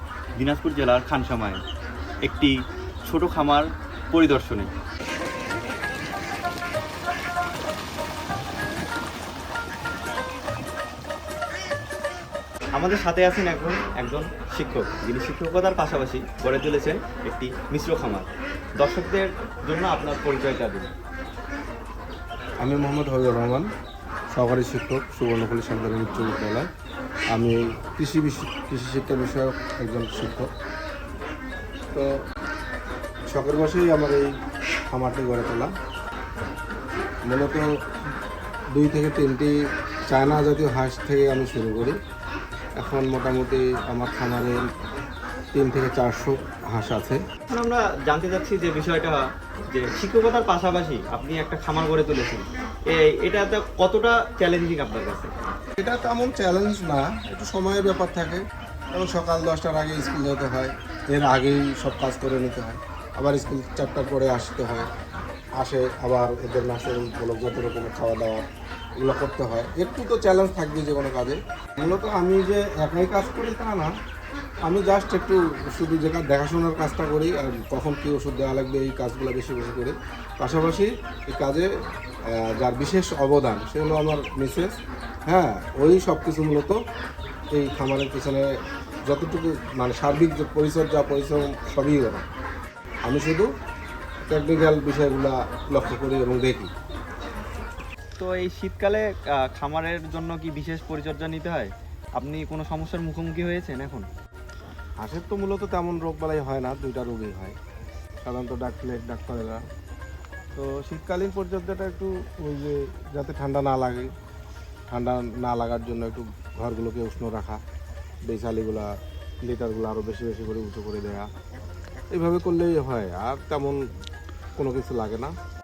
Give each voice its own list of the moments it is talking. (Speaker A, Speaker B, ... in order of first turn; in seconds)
Speaker A: 0.4-1.6, 2.2-4.7, 12.7-18.3, 18.8-20.9, 47.5-55.4, 98.2-104.0
Speaker B: 22.6-23.7, 24.3-26.7, 27.3-30.5, 33.3-34.3, 34.9-35.7, 37.3-37.7, 38.7-39.6, 40.1-42.0, 42.8-44.6, 45.5-47.2, 55.8-58.4, 58.9-64.9, 65.6-68.5, 69.0-73.9, 74.6-81.7, 82.3-84.8, 85.3-86.8, 87.5-88.5, 89.1-92.3, 93.0-93.5, 94.3-96.7, 105.0-107.5, 108.2-109.6, 110.5-114.1, 114.9-117.6, 118.3-118.9, 119.4-121.3, 122.1-123.8, 124.6-125.3